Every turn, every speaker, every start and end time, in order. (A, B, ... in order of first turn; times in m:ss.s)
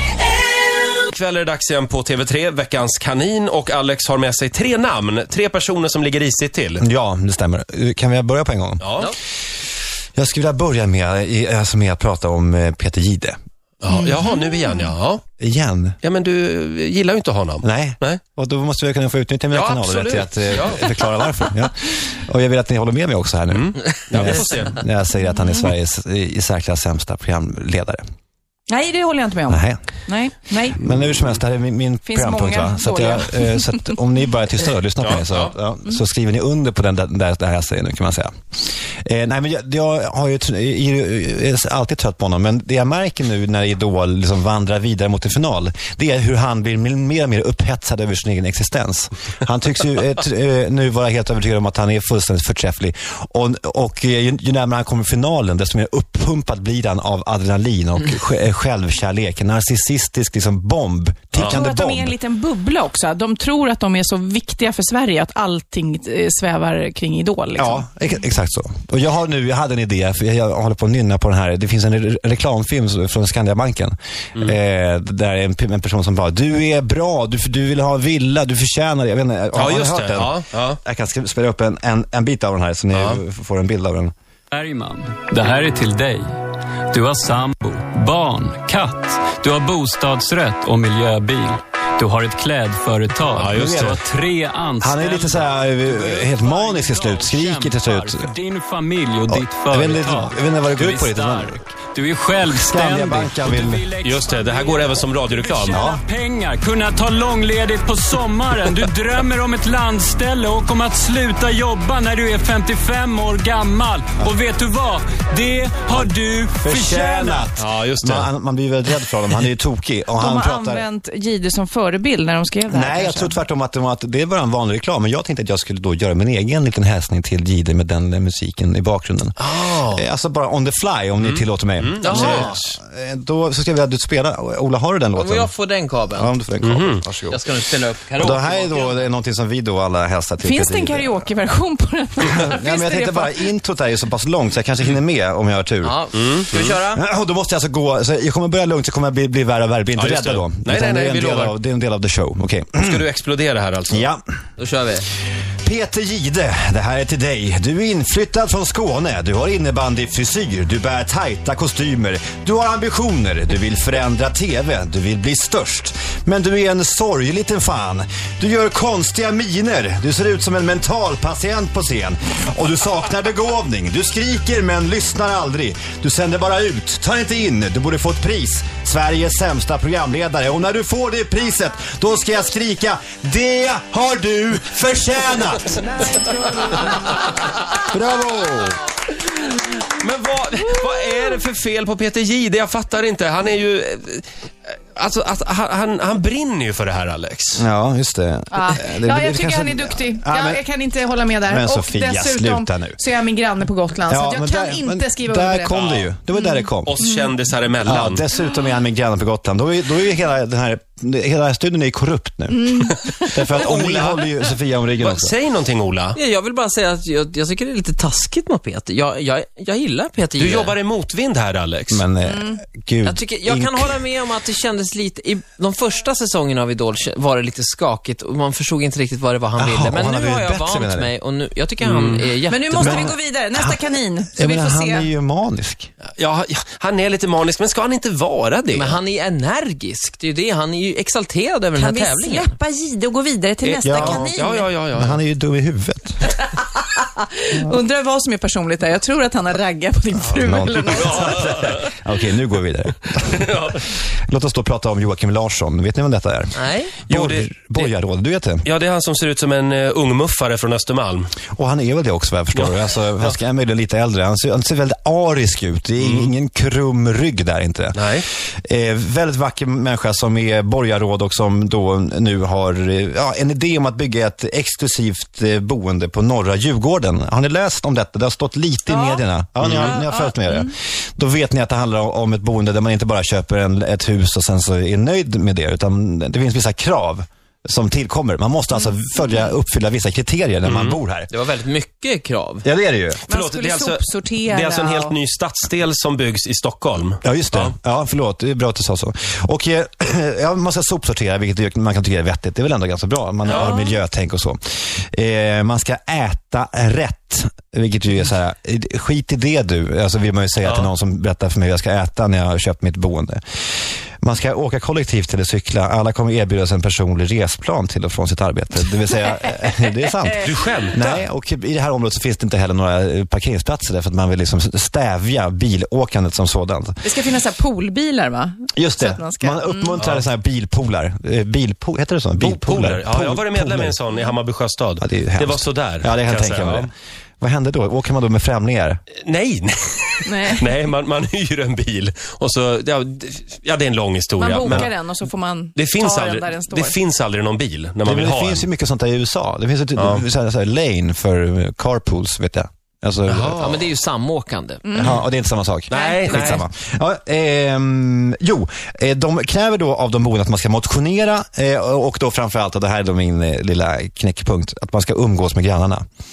0:01.0-0:06.8 A
0:06.8-0:09.0 B
0:08.8-0:09.2 A
0:10.2-0:13.4 B
0:13.8-0:15.2 A
0:13.9-0:14.4 C
0:15.4-0:16.0 B
0:16.0-0:18.2 A
0:17.6-0:28.0 B
0:19.5-0:21.2 A
0:23.5-0:24.8 A
0:28.7-0:30.9 C
0:29.5-0:29.8 B
0:30.7-0:38.3 B
0:32.0-0:33.9 C
0:35.0-0:35.5 A
0:39.0-1:02.2 B
1:01.4-1:07.8 C
1:07.6-1:24.1 B
1:19.5-1:20.8 A
1:22.9-1:23.2 A
1:24.5-1:26.3 D
1:26.9-1:57.5 D
1:33.4-1:34.0 A
1:33.6-1:34.0 B
1:34.8-1:38.3 B
1:39.3-1:41.6 B
1:42.4-1:43.8 B
1:44.0-1:45.8 A
1:45.7-1:46.0 B
1:56.6-2:00.8 B
1:57.6-1:58.3 A
2:00.2-2:03.4 C
2:02.7-2:15.5 B
2:09.4-2:10.0 A
2:11.2-2:12.8 A
2:12.0-2:12.5 E
2:15.1-2:16.3 E
2:16.1-2:17.4 B
2:16.6-2:17.0 A
2:17.3-2:19.1 E
2:18.2-2:21.3 B
2:20.4-2:23.5 C
2:22.2-2:26.0 B
2:25.8-2:27.0 E
2:26.1-2:26.8 A
2:26.9-2:33.0 B
2:30.0-2:31.6 A
2:32.8-2:34.1 A
2:33.9-2:34.2 B
2:34.6-2:35.1 E
2:35.6-3:05.9 B
3:07.9-3:08.8 B
3:09.7-3:17.6 A
3:17.6-3:20.6 B
3:18.5-3:25.7 C
3:21.5-3:23.0 B
3:24.1-3:27.0 B
3:25.7-3:26.1 A
3:26.8-3:28.2 A
3:27.0-3:27.3 C
3:27.8-3:35.4 B
3:32.5-3:33.3 C
3:33.5-3:34.3 A
3:35.0-3:36.2 A
3:36.2-3:40.8 E
3:40.4-3:42.1 A
3:41.9-3:44.0 B
3:42.2-3:42.6 C
3:43.0-3:53.1 E
3:49.6-3:51.1 B
3:51.8-3:52.3 A
3:52.5-3:55.1 C
3:52.8-3:55.9 B
3:56.2-3:59.0 A
3:58.7-4:02.5 E
4:01.8-4:04.7 C
4:03.6-4:05.2 A
4:03.8-4:04.3 B
4:04.9-4:06.2 B
4:06.3-4:11.5 C
4:10.2-4:13.5 B
4:11.0-4:11.9 A
4:13.3-4:13.8 A
4:14.3-4:18.7 B
4:16.6-4:17.0 E
4:17.1-4:17.9 A
4:18.6-4:21.4 A
4:21.6-4:28.0 B
4:26.0-4:26.3 A
4:28.0-4:28.3 A
4:28.6-4:51.3 B
4:38.9-4:39.2 C
4:39.6-4:40.0 A
4:39.8-4:40.7 C
4:50.6-4:51.0 A
4:51.3-4:52.7 E
4:52.6-4:53.2 B
4:53.3-4:57.8 A
4:53.3-4:55.2 C
4:57.2-5:04.6 B
5:03.4-5:03.8 A
5:03.5-5:04.0 C
5:05.1-5:13.4 B
5:10.6-5:10.9 A
5:14.2-5:27.0 B
5:20.4-5:21.2 A
5:27.0-5:30.0 C
5:28.8-5:34.0 B
5:30.0-5:30.3 A
5:32.4-5:36.9 A
5:35.0-5:36.9 B
5:37.4-5:39.0 B
5:39.2-5:44.9 A
5:40.2-5:40.7 C
5:44.4-5:47.0 C
5:44.6-5:44.9 B
5:45.8-5:48.7 A
5:48.0-5:53.7 B
5:50.0-5:50.2 A
5:53.3-5:53.9 A
5:53.6-5:54.8 E
5:54.8-5:55.2 C
5:54.9-6:06.0 B
5:55.9-5:56.6 A
5:55.9-5:56.6 C